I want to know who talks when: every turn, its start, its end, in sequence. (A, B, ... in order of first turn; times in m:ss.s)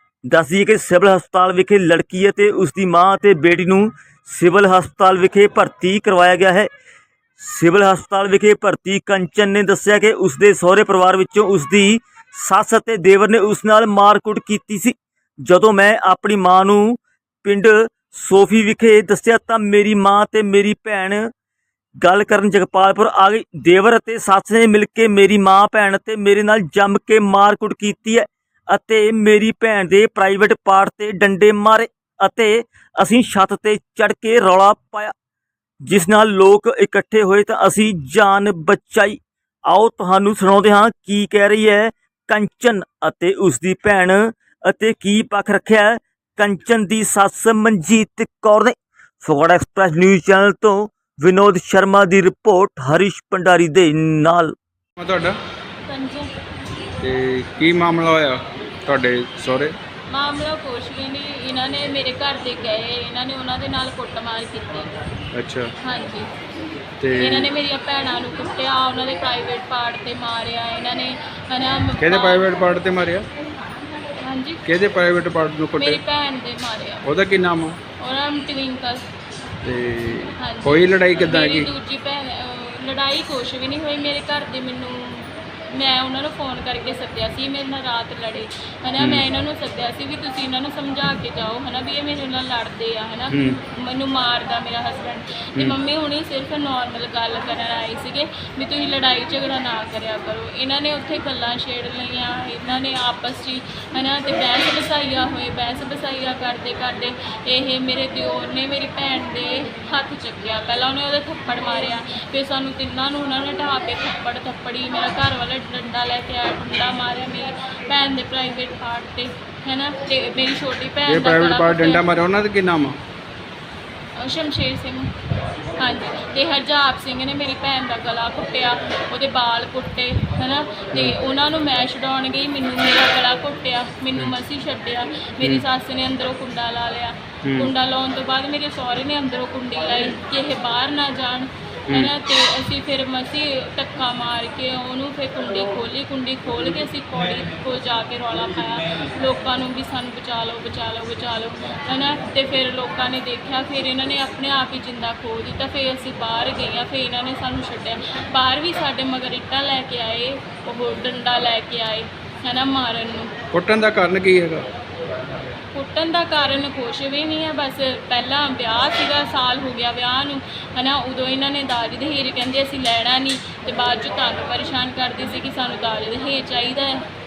0:00.3-0:06.7 A
0:07.4-0:21.2 A
0:22.0-0:35.1 A
0:35.8-0:54.5 A
0:55.0-0:55.4 B
0:55.9-0:56.3 C
0:57.0-0:59.8 B
1:00.1-1:04.9 C
1:05.4-1:05.7 B
1:05.8-1:06.3 C
1:07.0-1:07.5 B
1:07.1-1:12.5 C
1:12.0-1:13.3 B
1:14.2-1:14.6 C
1:14.7-1:16.0 B
1:15.8-1:17.0 C
1:17.0-1:17.8 B
1:18.0-1:19.0 C
1:19.6-1:21.7 B
1:20.4-2:02.0 C
1:29.0-1:29.2 B
1:33.3-1:33.6 B
2:01.1-2:03.0 B
2:04.2-2:05.1 C
2:05.8-2:43.3 C
2:17.4-2:17.7 B
2:43.5-2:44.7 B
2:45.7-2:57.1 C